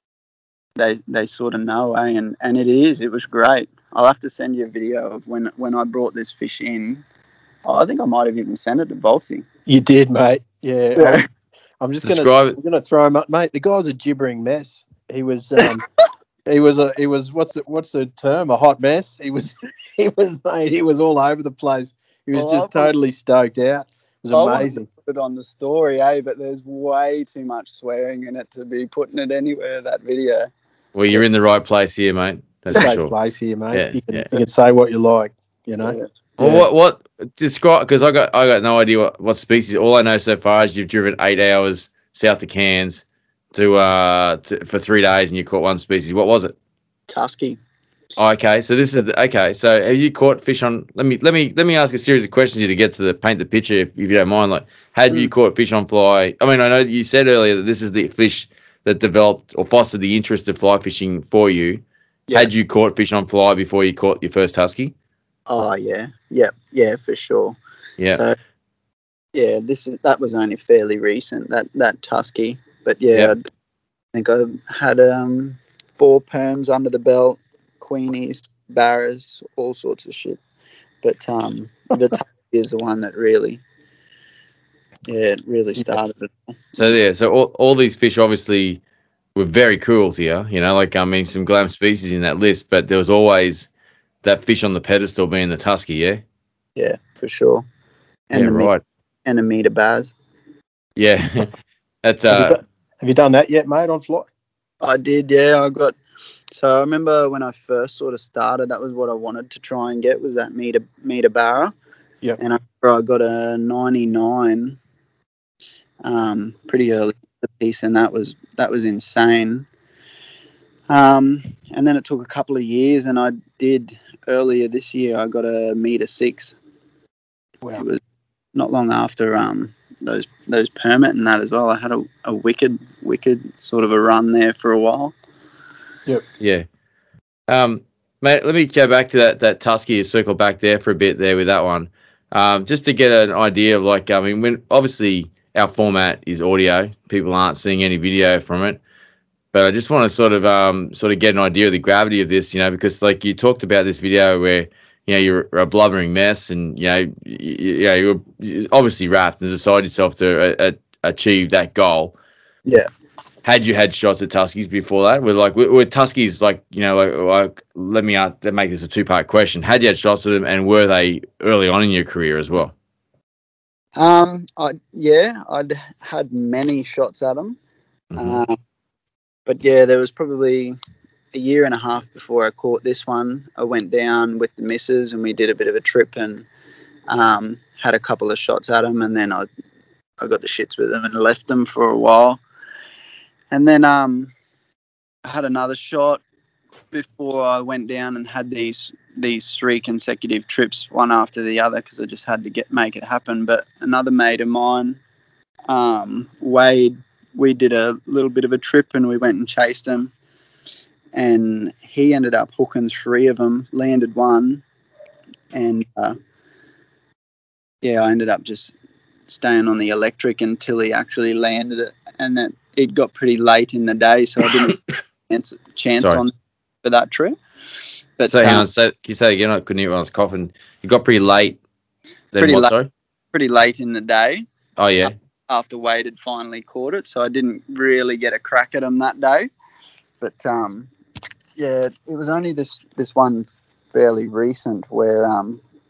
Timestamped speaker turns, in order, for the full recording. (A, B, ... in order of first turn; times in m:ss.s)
0:00.8-0:07.0 A
0:07.6-0:09.4 A
0:09.7-0:11.2 B
0:11.0-0:11.3 A
0:11.8-0:15.8 B
0:12.0-0:12.6 C
0:16.5-0:24.8 B
0:22.3-0:22.9 A
0:24.3-0:30.5 A
0:30.9-0:33.1 C
0:32.7-0:36.7 B
0:33.7-0:34.3 C
0:35.8-0:36.1 A
0:36.4-0:46.5 C
0:47.1-0:47.6 A
0:48.2-1:04.9 C
1:05.5-1:07.6 A
1:08.0-1:08.2 C
1:09.3-1:13.4 A
1:14.1-1:20.4 A
1:21.0-1:23.6 A
1:25.0-1:26.5 A
1:26.8-1:28.8 C
1:29.3-1:33.7 C
1:34.2-1:36.2 C
1:36.8-1:37.6 A
1:38.3-1:38.7 A
1:38.3-1:38.8 C
1:39.2-1:40.1 A
1:41.0-1:41.5 C
1:42.0-1:42.6 C
1:42.3-1:44.3 B
1:44.8-1:46.0 A
1:46.5-1:51.7 A
1:52.4-1:54.8 A
1:56.0-1:59.6 A
2:00.9-2:06.5 A
2:08.5-2:15.1 A
2:16.4-2:16.6 C
2:17.5-2:28.8 C
2:29.5-2:42.2 C
2:43.4-2:52.7 C
2:54.0-2:57.6 A
2:58.1-2:58.4 C
2:58.2-2:58.6 A
2:59.4-3:00.8 A
3:01.3-3:06.5 A
3:07.1-3:09.5 A
3:10.2-3:12.4 A
3:13.5-3:14.3 A
3:15.2-3:16.2 A
3:16.9-3:25.0 A
3:25.7-3:30.1 A
3:31.1-3:34.6 A
3:35.5-3:36.2 A
3:37.8-3:38.7 A
3:39.3-3:47.4 A
3:46.0-3:46.2 C
3:48.2-3:48.6 A
3:48.2-3:51.6 C
3:52.3-3:52.9 C
3:52.4-3:52.7 A
3:53.3-3:54.4 A
3:54.8-3:55.1 C
3:55.0-3:59.5 A
4:00.2-4:00.9 A
4:01.6-4:05.6 A